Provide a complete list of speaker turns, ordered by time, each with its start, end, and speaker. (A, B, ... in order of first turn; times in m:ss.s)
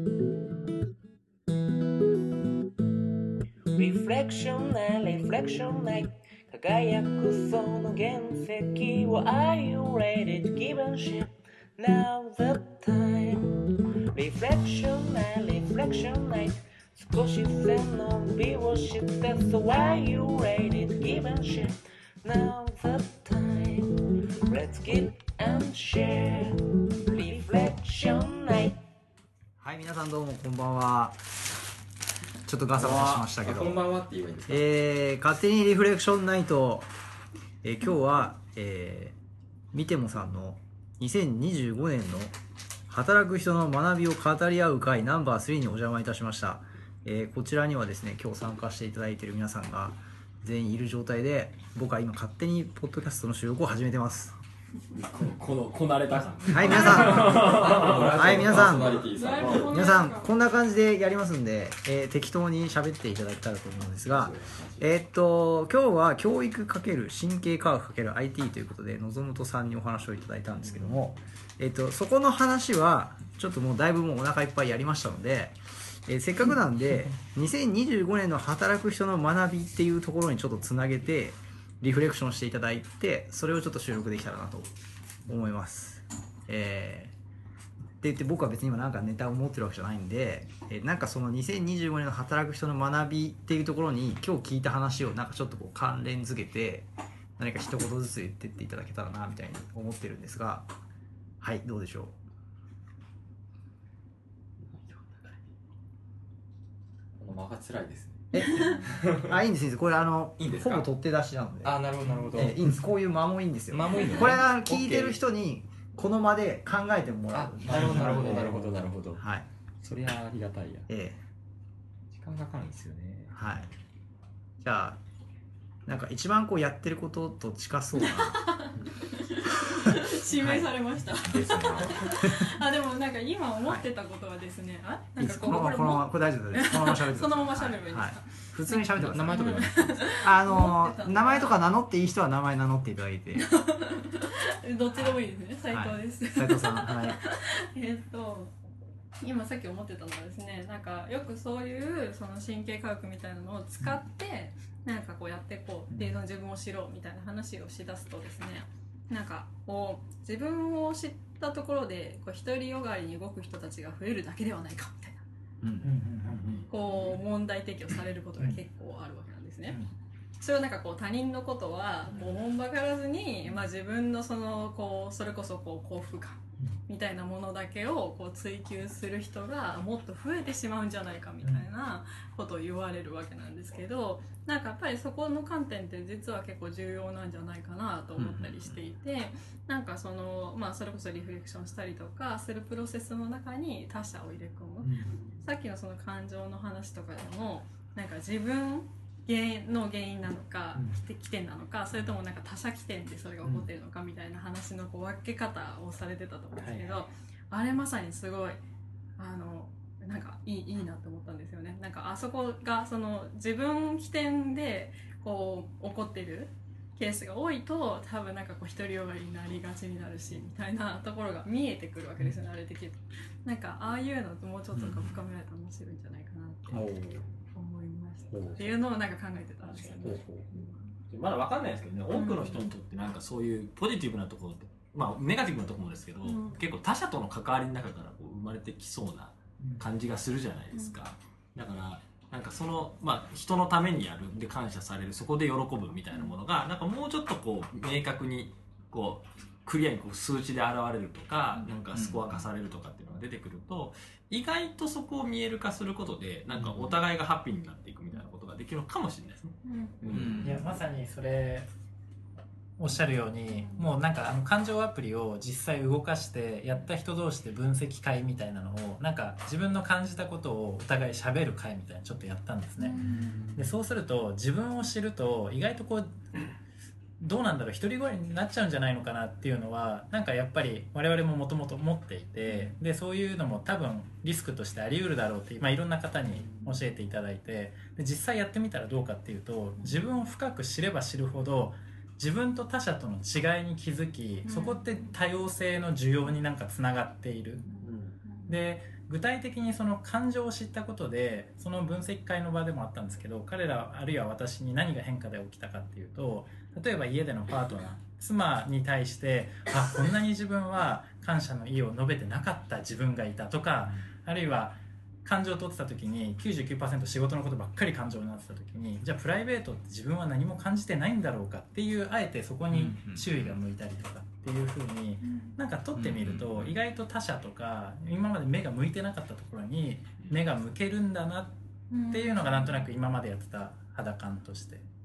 0:03.8-0:23.9 A
0:24.5-0:28.8 A
0:29.6-0:31.2 B
0:32.4-0:33.8 B
0:32.7-0:34.7 C
0:34.5-0:36.9 B
0:37.6-0:39.2 B
0:39.7-0:42.4 B
0:42.9-0:54.4 B
0:54.9-0:59.6 D
0:56.1-0:59.8 C
0:56.5-1:24.7 B
0:56.7-0:57.1 E
0:59.0-1:00.3 E
1:04.1-1:04.9 C
1:25.3-1:27.2 B
1:28.0-1:40.7 B
1:41.4-1:42.2 B
1:44.7-1:45.5 C
1:47.2-1:49.3 C
1:48.3-1:59.5 B
1:50.4-1:50.9 C
1:51.6-1:52.7 C
1:53.7-1:55.2 C
1:57.3-1:59.2 C
1:59.8-2:00.9 C
2:00.9-2:01.2 B
2:02.1-2:03.7 C
2:03.3-2:03.7 B
2:04.6-2:05.0 B
2:05.9-2:08.4 B
2:08.2-2:21.7 E
2:09.9-2:10.7 B
2:11.2-2:12.1 C
2:15.2-2:19.5 B
2:18.9-2:20.2 C
2:20.1-2:23.5 B
2:23.4-2:28.5 E
2:25.7-2:27.2 B
2:29.2-2:45.2 E
2:35.9-2:36.2 F
2:45.6-2:46.0 B
2:45.8-2:47.2 F
2:46.7-2:49.8 E
2:49.7-2:49.9 F
2:50.4-3:28.6 E
3:08.2-3:08.8 B
3:14.8-3:15.3 F
3:20.8-3:21.0 F
3:29.2-3:46.9 E
3:44.7-3:45.2 B
3:46.7-3:47.3 B
3:47.5-3:50.8 E
3:48.3-3:48.7 B
3:50.0-3:50.5 B
3:51.1-4:20.5 D
3:52.1-3:52.7 E
3:56.2-3:56.6 E
4:11.9-4:12.5 B
4:19.6-4:20.0 E
4:20.1-4:20.6 B
4:20.4-4:21.7 F
4:22.8-4:33.0 F
4:23.5-4:23.8 E
4:32.8-4:33.4 E
4:33.0-4:33.7 B
4:33.6-4:36.4 F
4:37.2-4:57.7 F
4:42.5-4:42.8 E
4:49.8-4:50.0 E
4:54.4-4:55.2 E
4:57.7-4:58.6 E
4:57.8-4:58.1 D
4:58.5-5:31.6 F
5:22.7-5:23.6 B
5:25.2-5:25.6 E
5:26.0-5:26.5 B
5:31.9-5:32.9 E
5:32.1-5:34.8 F